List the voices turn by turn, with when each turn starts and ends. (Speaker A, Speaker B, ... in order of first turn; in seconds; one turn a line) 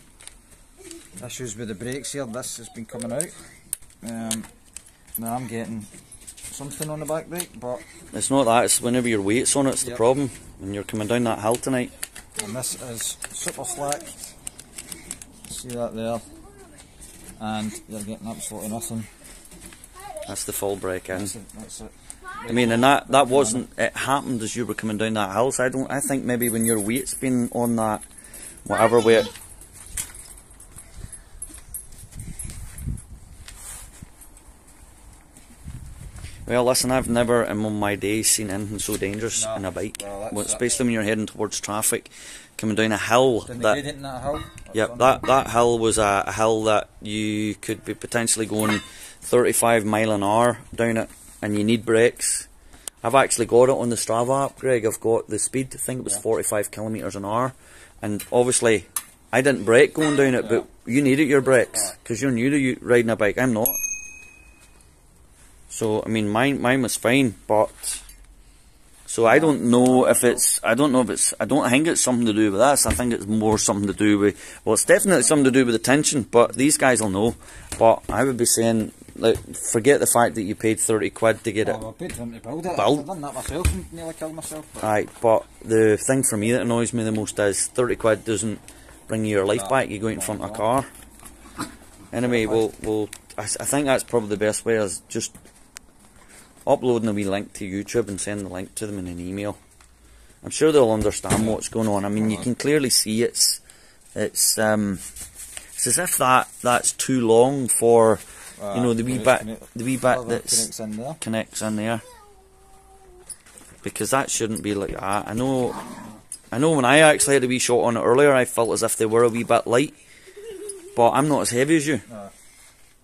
Speaker A: 1.2-3.4
Speaker A: 4.0-4.5
Speaker A: 5.2-5.9
Speaker A: 6.5-7.8
Speaker B: 8.1-11.9
Speaker A: 12.4-14.2
Speaker A: 15.4-16.3
Speaker A: 17.4-19.1
Speaker B: 20.3-21.3
Speaker A: 21.1-23.6
Speaker B: 22.5-28.1
Speaker B: 28.6-29.3
Speaker B: 36.5-43.8
Speaker A: 39.3-40.8
Speaker A: 43.5-45.4
Speaker B: 44.7-52.5
Speaker B: 53.0-63.8
Speaker B: 65.7-68.0
Speaker B: 69.1-81.8
Speaker A: 69.2-70.5
Speaker A: 74.9-75.6
Speaker A: 81.6-84.9
Speaker B: 82.7-83.1
Speaker B: 84.8-90.9
Speaker A: 89.5-90.7
Speaker B: 92.1-95.3
Speaker A: 92.2-92.7
Speaker B: 96.7-99.6
Speaker B: 100.4-103.6
Speaker A: 101.3-101.6
Speaker A: 102.2-102.5
Speaker B: 104.2-105.0
Speaker B: 105.8-110.7
Speaker A: 108.6-111.2
Speaker B: 111.2-112.0
Speaker B: 113.8-115.9
Speaker B: 116.5-120.0
Speaker B: 120.9-122.0